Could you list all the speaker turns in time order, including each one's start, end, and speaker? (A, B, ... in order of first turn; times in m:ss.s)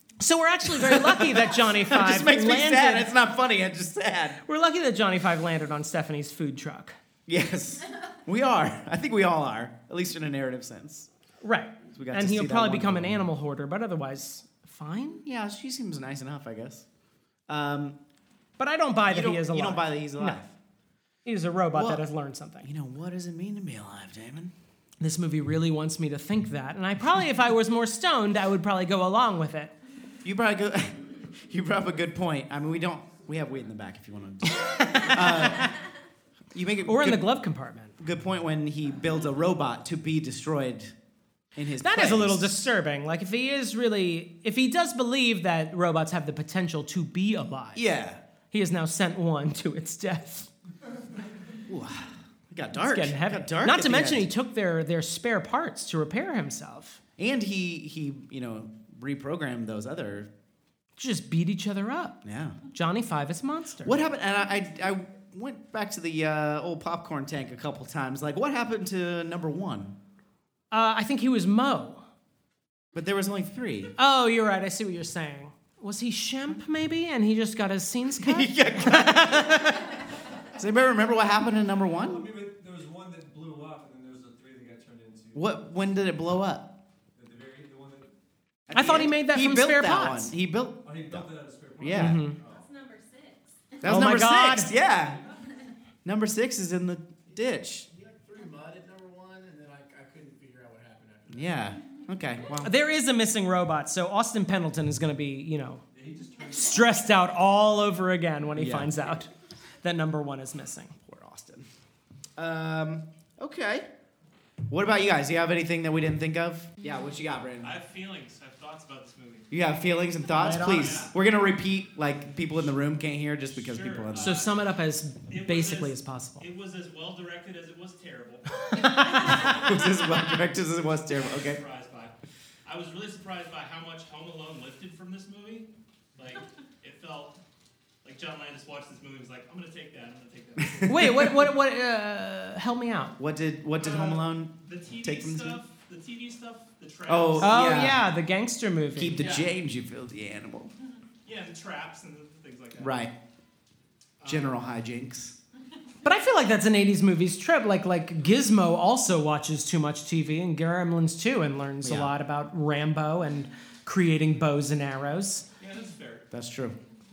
0:00.2-0:03.1 A
0:00.7-0:04.4 B
0:04.4-0:07.0 A
0:07.3-0:11.1 B
0:11.4-0:15.2 A
0:11.9-0:13.2 B
0:15.2-0:16.8 B
0:17.5-0:18.0 B
0:18.6-0:20.4 A
0:19.1-0:20.5 B
0:21.2-0:22.7 A
0:21.7-0:22.0 B
0:22.6-0:24.5 B
0:25.0-0:29.7 A
0:30.2-0:35.7 B
0:34.5-0:35.8 A
0:36.5-0:37.3 B
0:36.8-0:38.0 A
0:38.0-0:40.9 B
0:41.6-0:42.6 B
0:41.8-0:47.8 A
0:47.7-0:48.2 B
0:48.5-0:50.5 A
0:51.7-0:54.3 B
0:52.8-0:57.0 A
0:57.2-1:00.3 B
1:01.0-1:04.0 A
1:02.2-1:02.6 B
1:03.8-1:10.0 B
1:10.7-1:12.0 A
1:12.9-1:13.9 B
1:14.0-1:19.8 A
1:18.2-1:19.8 B
1:20.5-1:22.3 B
1:22.0-1:25.5 C
1:25.3-1:26.7 B
1:27.1-1:28.1 C
1:28.7-1:32.2 B
1:28.7-1:30.3 A
1:30.8-1:32.7 C
1:31.9-1:32.4 A
1:33.8-1:35.2 B
1:33.8-1:34.7 A
1:36.0-1:37.9 B
1:37.9-1:41.7 D
1:41.3-1:42.7 B
1:42.6-1:45.8 A
1:45.9-1:47.4 C
1:46.5-1:49.3 A
1:48.6-1:49.0 B
1:49.8-1:50.9 A
1:51.0-1:51.7 B
1:52.4-1:53.9 B
1:54.7-1:57.8 B
1:57.6-1:59.5 E
1:59.5-2:04.4 B
2:00.4-2:01.1 A
2:00.7-2:01.1 E
2:03.5-2:04.6 E
2:04.2-2:06.4 A
2:05.3-2:09.8 E
2:08.7-2:09.6 A
2:09.3-2:11.6 B
2:11.0-2:12.1 E
2:12.6-2:17.4 E
2:18.0-2:21.3 E
2:20.6-2:21.3 B
2:20.9-2:23.2 A
2:23.2-2:25.6 B
2:23.8-2:27.5 E
2:27.1-2:28.0 B
2:27.4-2:29.4 A
2:29.0-2:30.7 B
2:31.2-2:33.0 E
2:32.8-2:33.1 B
2:34.2-2:34.5 E
2:34.2-2:35.4 B
2:36.0-2:45.4 A
2:41.8-2:42.1 B
2:45.6-2:46.3 E
2:46.3-2:46.8 B